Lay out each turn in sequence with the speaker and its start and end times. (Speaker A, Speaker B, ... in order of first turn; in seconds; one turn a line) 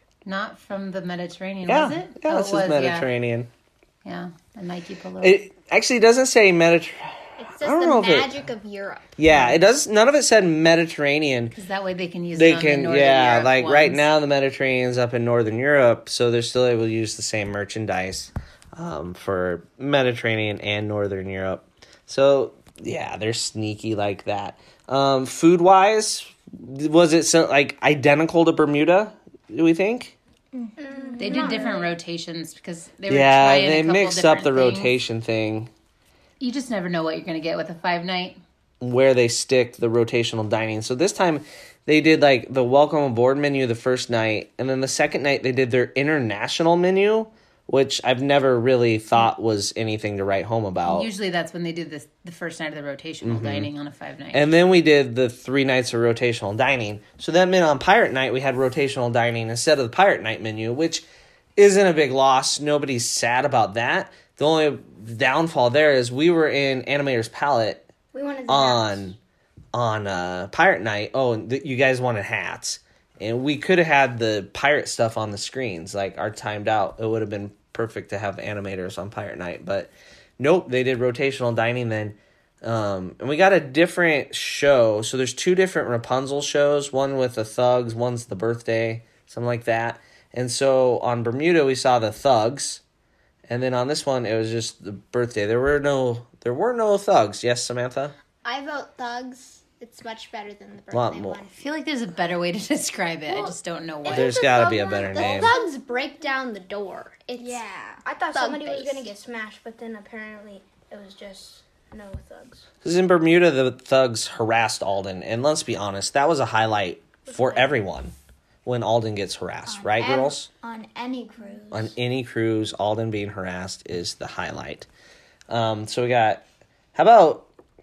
Speaker A: 0.2-3.1
Speaker B: 1.7-3.5
Speaker A: 4.0-5.4
Speaker B: 5.2-8.5
Speaker C: 7.4-9.1
Speaker B: 9.2-11.6
Speaker A: 9.3-9.6
Speaker A: 11.5-14.1
Speaker B: 12.3-30.1
Speaker D: 30.5-31.9
Speaker E: 30.8-31.9
Speaker A: 31.2-35.0
Speaker B: 33.1-35.7
Speaker A: 36.4-38.4
Speaker B: 38.8-51.1
Speaker A: 50.9-54.5
Speaker B: 53.2-53.7
Speaker B: 54.3-67.9
Speaker C: 68.1-69.0
Speaker E: 68.2-68.7
Speaker B: 68.5-69.2
Speaker B: 69.7-92.8
Speaker B: 93.5-98.1
Speaker C: 98.4-101.6
Speaker B: 100.9-101.4
Speaker A: 101.6-104.3
Speaker C: 104.0-109.1
Speaker B: 104.1-105.5
Speaker E: 107.4-112.7
Speaker B: 112.8-118.1
Speaker E: 117.3-117.8
Speaker B: 118.7-120.5
Speaker D: 119.7-121.9
Speaker B: 121.7-124.9
Speaker B: 125.5-127.5